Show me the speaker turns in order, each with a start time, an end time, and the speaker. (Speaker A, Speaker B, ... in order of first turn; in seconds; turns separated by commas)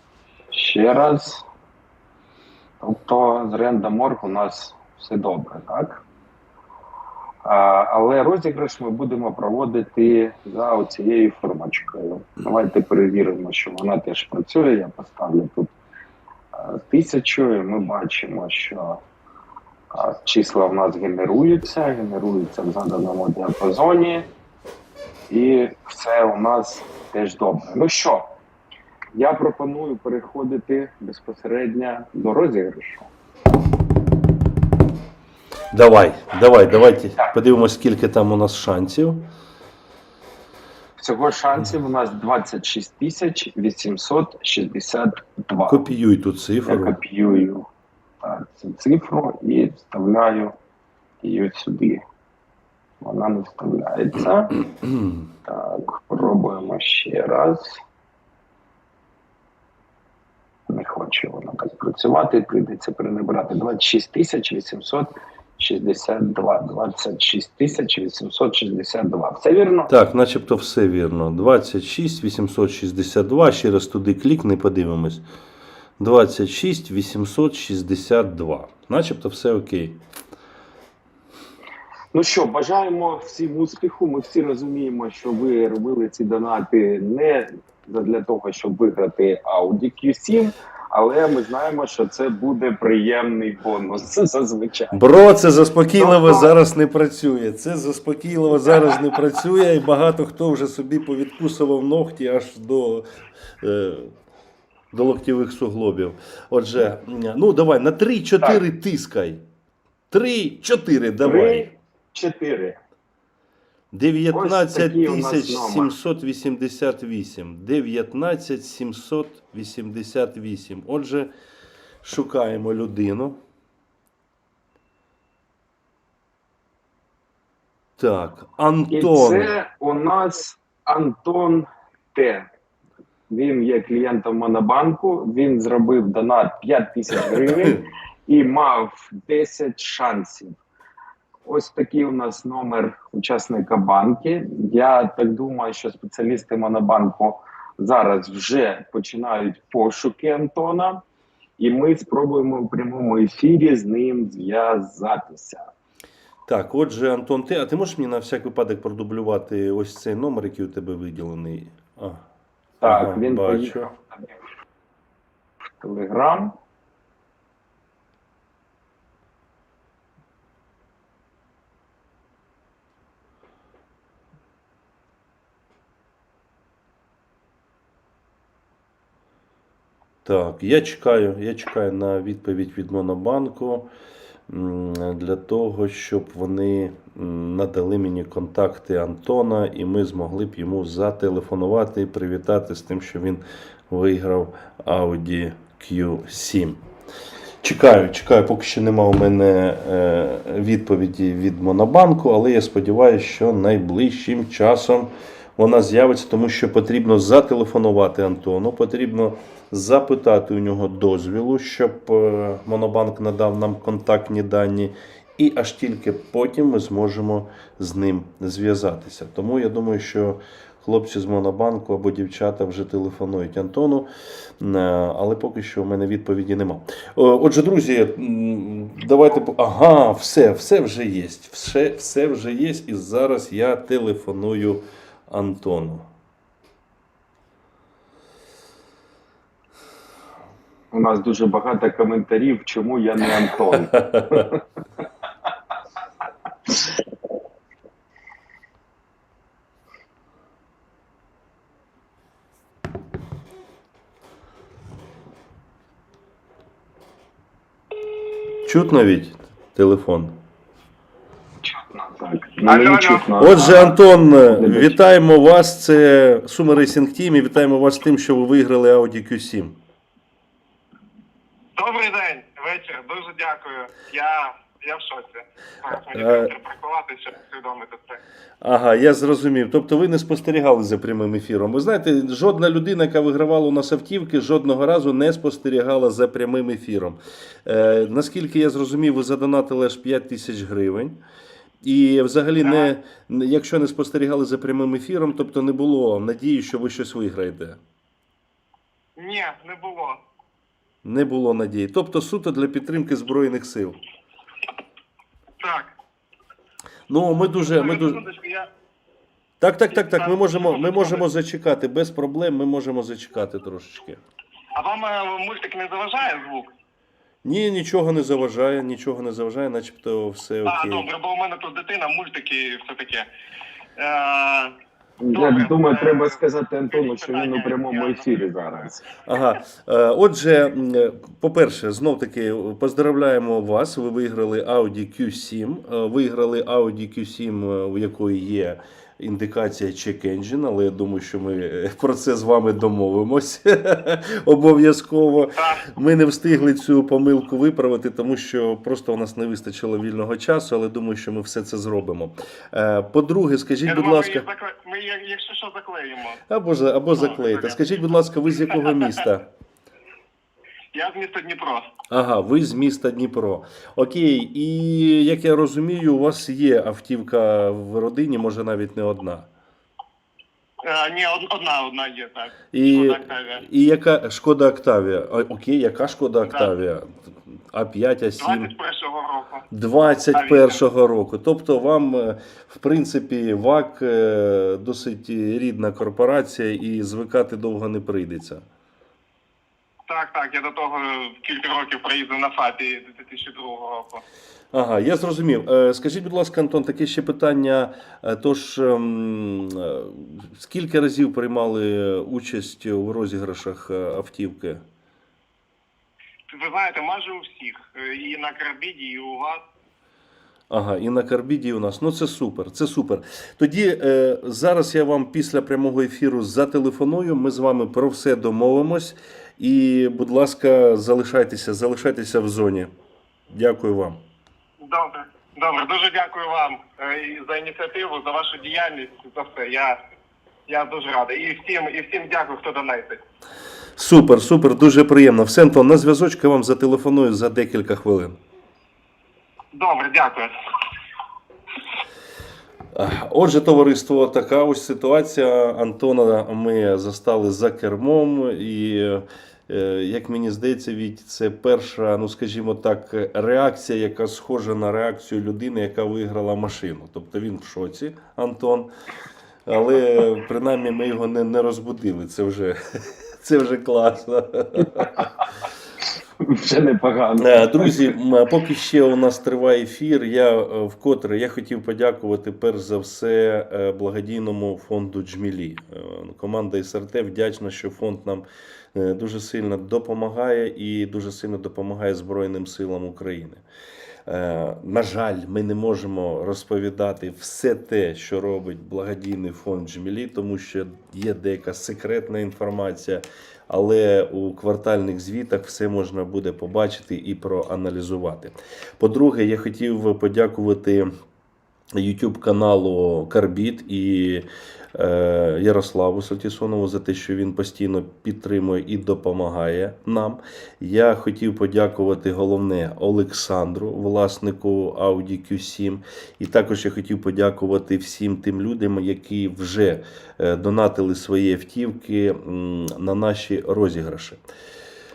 Speaker A: 0.5-1.5, Speaker A: 2.8-6.0, Speaker A: 7.5-15.7, Speaker A: 16.5-19.0, Speaker A: 19.9-24.3, Speaker A: 25.3-28.3, Speaker A: 29.1-33.1, Speaker B: 35.7-39.2, Speaker A: 41.0-45.9, Speaker B: 45.7-47.0, Speaker A: 46.7-47.7, Speaker A: 48.2-50.5, Speaker A: 51.2-52.0, Speaker A: 53.0-54.6, Speaker A: 55.5-57.8, Speaker A: 60.7-69.9, Speaker B: 69.9-75.2, Speaker B: 76.0-80.0, Speaker A: 82.1-95.0, Speaker B: 94.9-103.0, Speaker A: 96.0-96.5, Speaker B: 103.6-104.1, Speaker B: 104.9-109.4, Speaker B: 110.1-111.7, Speaker A: 111.2-112.8, Speaker B: 113.9-121.3, Speaker A: 114.3-115.9, Speaker B: 122.0-123.4, Speaker B: 128.0-129.5, Speaker A: 128.9-132.5, Speaker A: 133.3-140.6, Speaker B: 137.4-137.8, Speaker A: 141.5-151.0, Speaker A: 151.6-155.7, Speaker B: 156.5-162.2, Speaker A: 162.8-163.9, Speaker B: 162.8-163.9, Speaker A: 165.8-166.6, Speaker B: 180.2-183.9, Speaker B: 184.5-196.8, Speaker B: 197.6-236.1, Speaker A: 240.9-244.6, Speaker B: 243.9-244.4, Speaker B: 258.7-260.4, Speaker A: 261.6-265.0, Speaker C: 262.7-263.3, Speaker B: 263.4-269.8, Speaker C: 271.8-278.2, Speaker B: 276.1-276.5, Speaker B: 278.6-291.2, Speaker B: 291.8-297.8, Speaker C: 292.6-292.9, Speaker C: 299.2-300.2, Speaker B: 301.0-304.0, Speaker C: 305.6-305.9, Speaker B: 307.1-308.2, Speaker C: 307.7-308.7, Speaker B: 309.6-314.2, Speaker C: 309.9-311.2, Speaker C: 314.8-316.7, Speaker B: 317.4-321.1, Speaker C: 320.7-323.3, Speaker C: 324.0-324.8, Speaker A: 325.2-329.1, Speaker C: 325.3-326.4, Speaker C: 326.9-328.4, Speaker B: 329.3-354.5, Speaker C: 345.6-345.9, Speaker C: 353.9-356.4, Speaker B: 356.5-359.5, Speaker C: 357.2-358.0, Speaker C: 358.7-359.1, Speaker C: 360.9-361.9, Speaker B: 362.1-369.5, Speaker C: 370.8-373.6, Speaker B: 372.7-377.2, Speaker C: 376.5-376.7, Speaker B: 377.7-378.7, Speaker C: 378.4-379.6, Speaker B: 379.7-388.6, Speaker C: 380.3-380.8, Speaker C: 390.1-394.2, Speaker B: 394.7-404.8, Speaker C: 406.5-409.6, Speaker B: 410.7-422.9, Speaker B: 423.5-424.2, Speaker C: 424.8-430.0, Speaker C: 430.7-433.2, Speaker B: 434.0-438.4, Speaker C: 439.7-440.5, Speaker B: 442.9-458.9, Speaker B: 459.7-465.3, Speaker A: 466.4-468.1, Speaker B: 467.4-483.6, Speaker B: 484.3-501.1, Speaker B: 501.9-524.4